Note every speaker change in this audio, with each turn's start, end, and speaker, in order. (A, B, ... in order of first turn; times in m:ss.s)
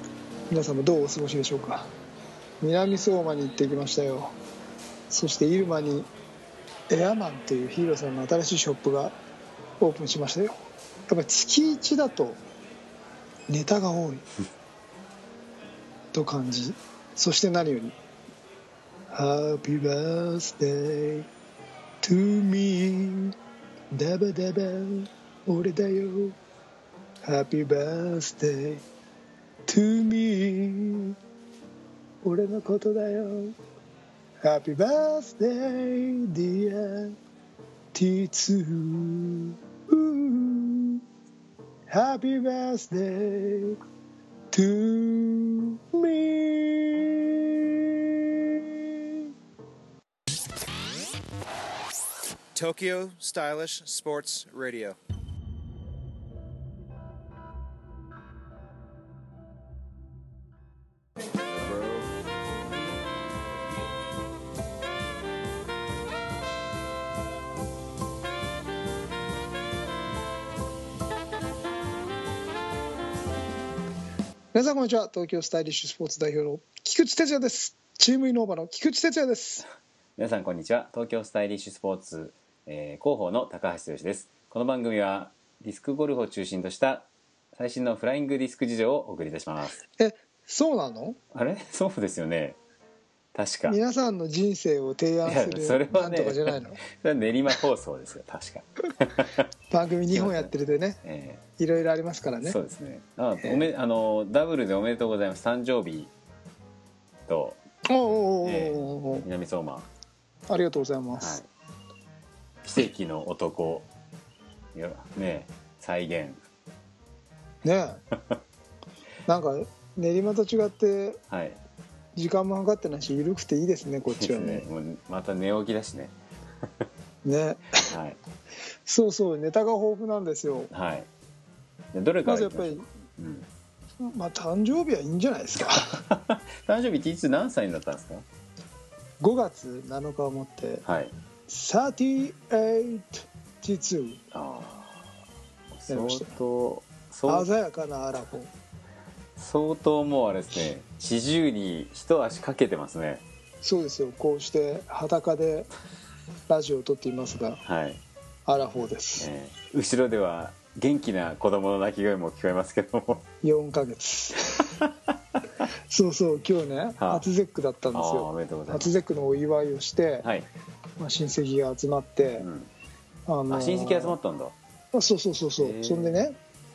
0:00.5-0:01.9 A
0:02.6-0:04.4 A
0:05.1-0:06.1 A
0:06.9-0:09.2 A
0:09.8-0:10.6 A
0:11.1-0:12.4 A
0:13.5-0:14.2 A
0:16.1-0:18.0 A
0:19.1-0:21.3 A
0:22.0-0:23.3 A
0:23.9-0:26.4 A
0:27.2-0:28.8 A
0:29.7-0:31.2 A
0:32.2-0:33.6 A
0:34.4-0:37.2 A
0:37.9-0:41.0 A
0:41.9-0:43.8 A
0:44.5-0:49.2 A
0:52.5-0:55.0 B
1:01.5-1:01.9 B
1:14.5-1:19.7 A
1:20.2-1:29.8 C
1:30.0-1:31.2 A
1:31.3-1:32.6 C
1:33.4-1:33.8 C
1:33.7-1:36.8 A
1:35.2-1:39.5 C
1:39.7-1:41.0 A
1:40.1-1:40.5 C
1:41.0-1:41.4 C
1:41.6-1:42.6 A
1:42.4-1:46.1 C
1:47.3-1:47.6 C
1:47.9-1:49.3 A
1:48.4-1:49.9 C
1:50.5-1:51.4 A
1:51.2-1:51.5 C
1:52.6-1:53.9 C
1:54.7-1:56.4 C
1:57.6-1:58.0 A
1:58.1-1:58.4 C
1:59.3-2:01.2 A
2:01.3-2:01.6 C
2:02.2-2:04.7 A
2:04.1-2:06.7 C
2:07.2-2:08.0 A
2:07.9-2:08.2 C
2:08.9-2:10.7 A
2:10.7-2:11.1 C
2:11.9-2:13.5 C
2:12.2-2:12.9 A
2:14.0-2:16.0 A
2:16.0-2:18.2 C
2:19.2-2:20.8 A
2:20.8-2:21.1 C
2:21.5-2:24.2 A
2:24.3-2:25.1 C
2:25.7-2:27.5 C
2:25.9-2:26.3 A
2:27.3-2:28.5 A
2:29.4-2:33.2 C
2:33.6-2:35.7 A
2:36.5-2:37.6 A
2:37.6-2:38.0 C
2:38.5-2:39.3 A
2:39.2-2:43.2 C
2:43.4-2:44.8 A
2:45.9-2:50.3 A
2:47.0-2:47.2 C
2:47.9-2:48.9 C
2:50.2-2:50.5 C
2:51.0-2:52.5 A
2:52.4-2:52.7 C
2:53.3-2:54.2 A
2:53.5-2:54.6 C
2:54.9-2:56.4 A
2:55.6-2:56.2 C